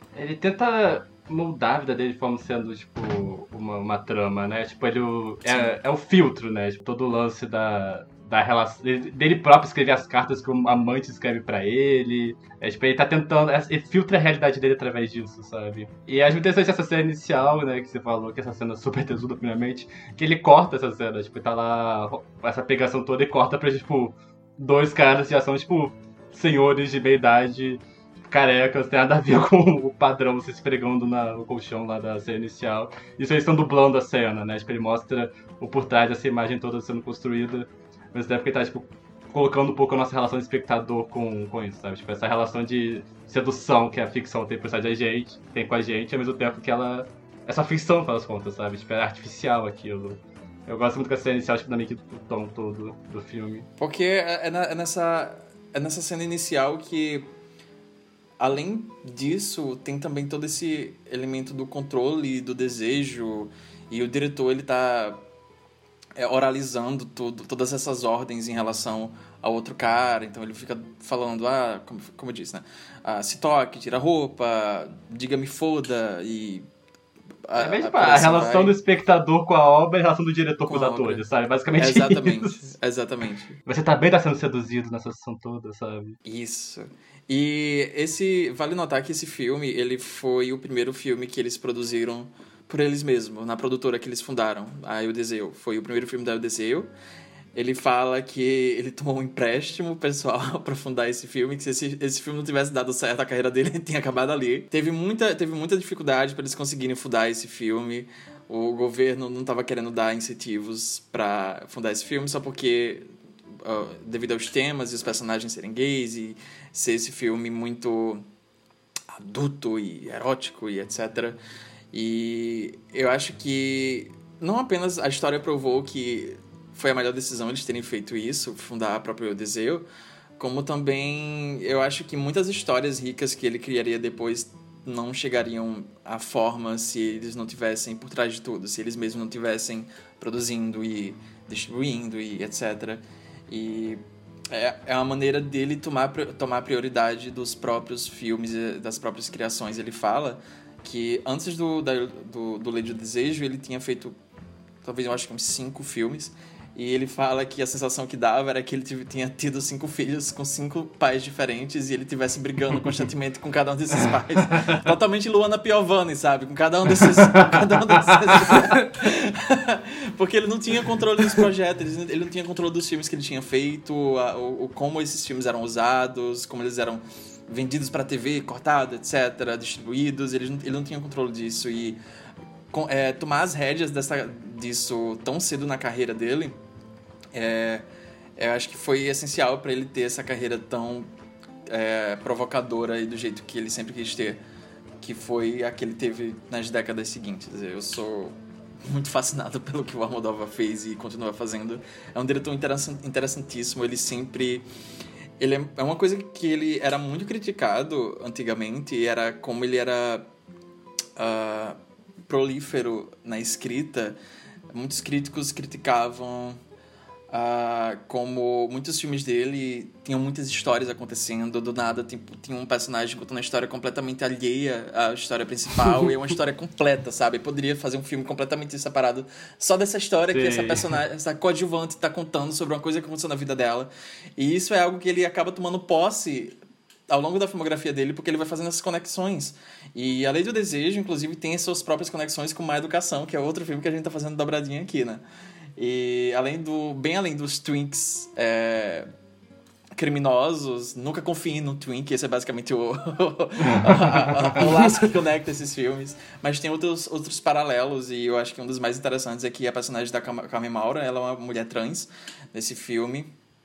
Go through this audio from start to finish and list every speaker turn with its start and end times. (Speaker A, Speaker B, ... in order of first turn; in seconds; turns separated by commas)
Speaker A: 0.1-53.7, Speaker B: 5.5-5.7, Speaker B: 53.8-57.3, Speaker B: 58.4-65.2, Speaker B: 66.2-76.7, Speaker B: 77.5-78.8, Speaker A: 77.6-82.7, Speaker B: 80.7-81.2, Speaker B: 81.8-83.6, Speaker A: 83.7-86.2, Speaker B: 86.2-96.9, Speaker B: 97.5-118.2, Speaker B: 119.1-121.4, Speaker B: 121.9-154.2, Speaker B: 154.8-182.0, Speaker A: 168.1-168.6, Speaker B: 182.7-186.6, Speaker B: 187.3-191.1, Speaker B: 191.7-194.4, Speaker B: 195.0-204.7, Speaker B: 205.4-210.3, Speaker B: 211.2-214.2, Speaker B: 214.7-216.6, Speaker B: 217.3-245.2, Speaker A: 230.3-230.9, Speaker B: 245.8-249.1, Speaker B: 249.9-263.3